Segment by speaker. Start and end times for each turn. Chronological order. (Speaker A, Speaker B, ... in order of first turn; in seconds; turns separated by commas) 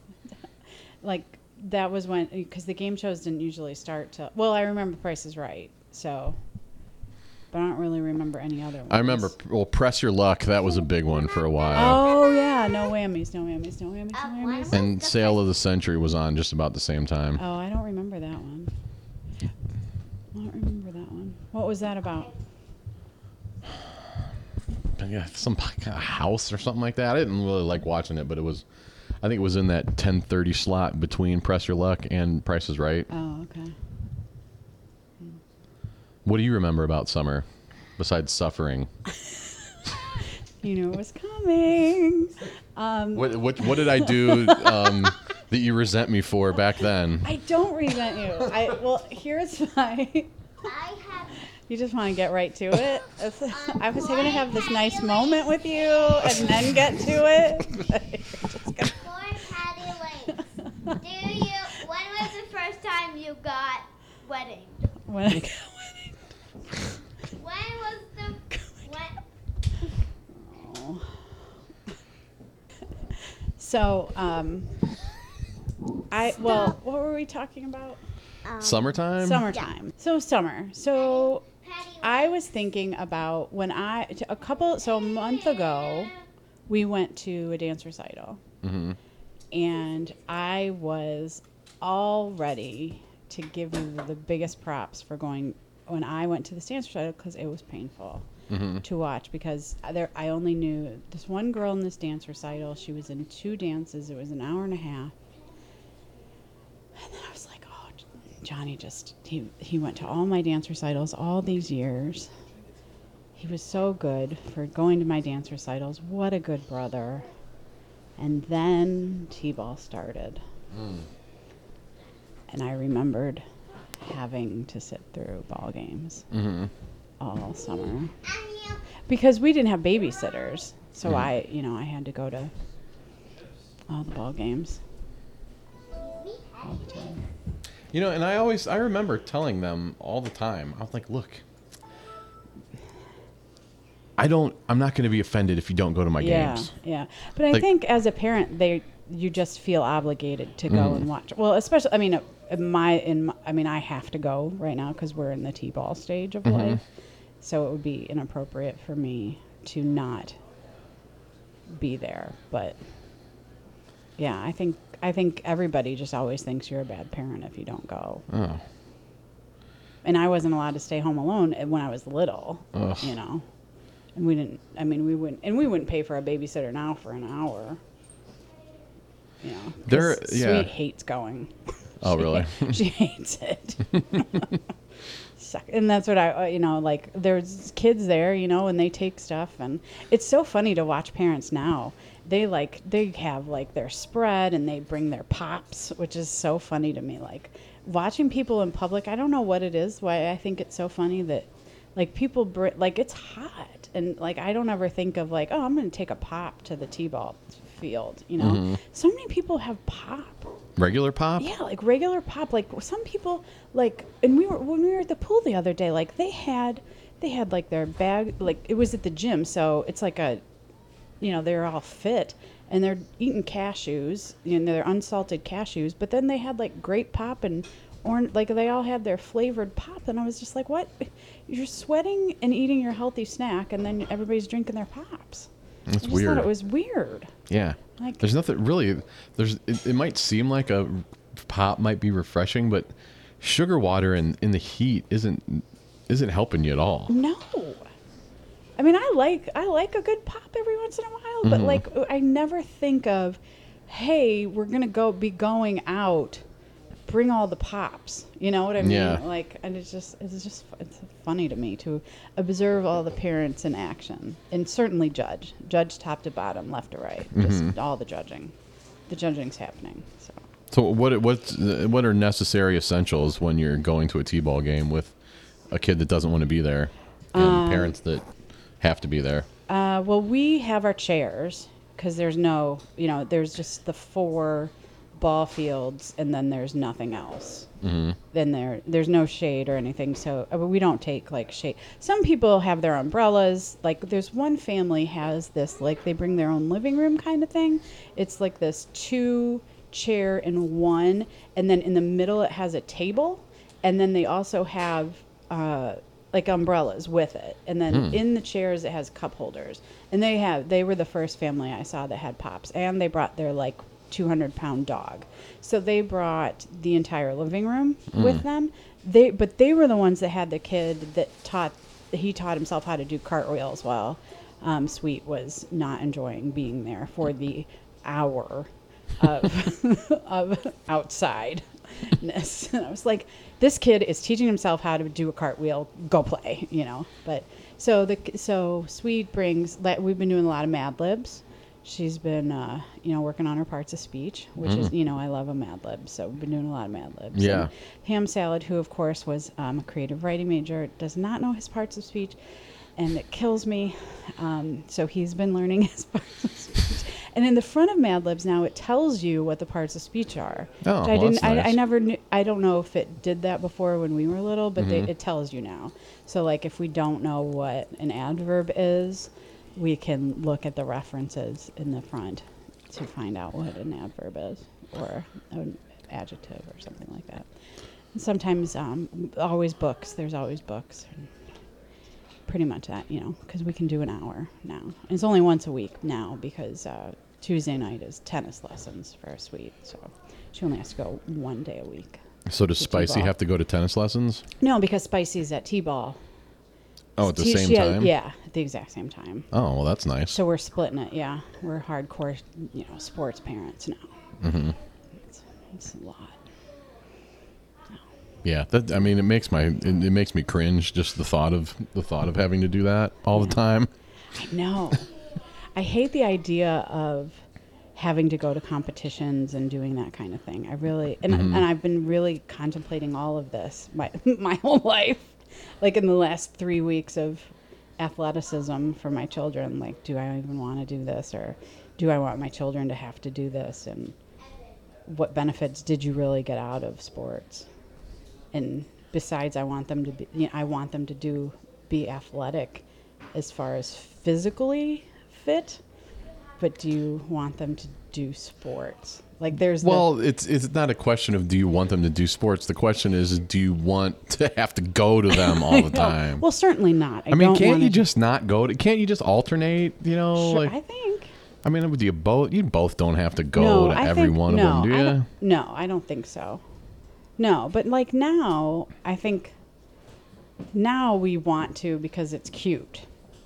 Speaker A: 1.0-6.4, Speaker A: 7.5-9.3, Speaker B: 8.9-12.1, Speaker C: 11.2-12.8, Speaker A: 11.7-14.9, Speaker C: 14.1-15.4, Speaker B: 14.7-17.4, Speaker A: 17.4-18.7, Speaker A: 20.3-22.3, Speaker B: 25.0-28.6, Speaker B: 29.2-33.1, Speaker A: 33.1-33.7, Speaker B: 36.2-37.4, Speaker B: 38.0-38.9, Speaker A: 40.6-45.1, Speaker B: 43.1-47.3, Speaker A: 47.2-50.3, Speaker C: 50.6-51.4, Speaker A: 51.6-59.1, Speaker C: 53.5-56.7, Speaker C: 58.8-60.4, Speaker C: 60.9-64.9, Speaker A: 65.0-66.2, Speaker C: 67.4-69.1, Speaker A: 70.3-71.2, Speaker A: 73.6-74.8, Speaker A: 76.1-78.0, Speaker C: 76.4-76.7, Speaker C: 78.4-79.0, Speaker B: 78.6-79.5, Speaker A: 79.2-81.5, Speaker C: 81.6-82.3, Speaker A: 82.0-86.1, Speaker C: 85.1-86.1, Speaker A: 86.7-88.4, Speaker B: 88.6-89.0, Speaker A: 89.5-98.3, Speaker B: 98.5-98.8, Speaker A: 98.8-105.1, Speaker A: 107.0-112.3, Speaker A: 113.3-117.3, Speaker A: 118.2-120.4, Speaker B: 120.7-121.0, Speaker A: 122.5-123.4, Speaker A: 124.0-126.2, Speaker B: 126.3-126.7, Speaker A: 127.2-128.1, Speaker C: 128.2-128.8, Speaker A: 129.1-132.5, Speaker A: 133.9-134.8, Speaker C: 135.9-137.1, Speaker A: 136.6-137.2, Speaker B: 137.9-141.4, Speaker B: 144.2-146.7, Speaker A: 146.2-156.8, Speaker B: 150.7-151.0, Speaker B: 156.4-156.8, Speaker A: 157.4-160.4, Speaker A: 161.7-162.8, Speaker A: 164.2-168.2, Speaker B: 168.3-168.6, Speaker A: 170.0-173.4, Speaker B: 172.7-173.1, Speaker A: 174.1-177.8, Speaker A: 179.4-184.5, Speaker B: 179.8-180.7, Speaker B: 182.0-182.8, Speaker A: 185.4-210.5, Speaker B: 208.4-208.8, Speaker B: 210.8-211.5, Speaker A: 211.4-220.4, Speaker A: 221.2-235.5, Speaker B: 235.9-236.5, Speaker A: 236.0-237.3, Speaker B: 237.5-247.1, Speaker A: 238.0-238.2, Speaker A: 247.1-247.9, Speaker A: 248.8-256.4, Speaker B: 251.4-251.8, Speaker A: 257.1-268.5, Speaker B: 258.8-259.2, Speaker B: 267.3-267.7, Speaker A: 269.1-270.4, Speaker B: 270.7-275.1, Speaker B: 275.7-278.2, Speaker A: 277.3-277.9, Speaker B: 278.8-279.5, Speaker A: 279.7-287.7, Speaker B: 287.8-288.2, Speaker A: 288.3-352.4, Speaker B: 307.9-308.2, Speaker B: 318.1-318.4, Speaker B: 344.6-344.9, Speaker B: 347.3-347.7, Speaker A: 353.0-377.5, Speaker B: 360.8-361.8, Speaker B: 364.8-365.1, Speaker A: 378.1-381.3, Speaker A: 382.4-392.2, Speaker B: 392.5-394.4, Speaker A: 392.8-393.3, Speaker A: 394.6-396.2, Speaker B: 397.2-398.1, Speaker A: 397.2-399.5, Speaker B: 399.5-400.4, Speaker A: 400.3-404.1, Speaker B: 404.4-404.8, Speaker A: 405.3-406.4, Speaker B: 408.4-413.9, Speaker A: 414.3-415.1, Speaker A: 415.7-417.4, Speaker A: 417.9-434.1, Speaker B: 421.3-421.6, Speaker A: 435.1-437.7, Speaker A: 438.5-445.8, Speaker A: 446.6-450.1, Speaker B: 449.8-456.4, Speaker A: 455.3-458.1, Speaker B: 457.3-460.7, Speaker A: 460.3-461.3, Speaker B: 461.6-465.3, Speaker A: 463.5-466.6, Speaker A: 467.4-469.6, Speaker A: 470.7-473.1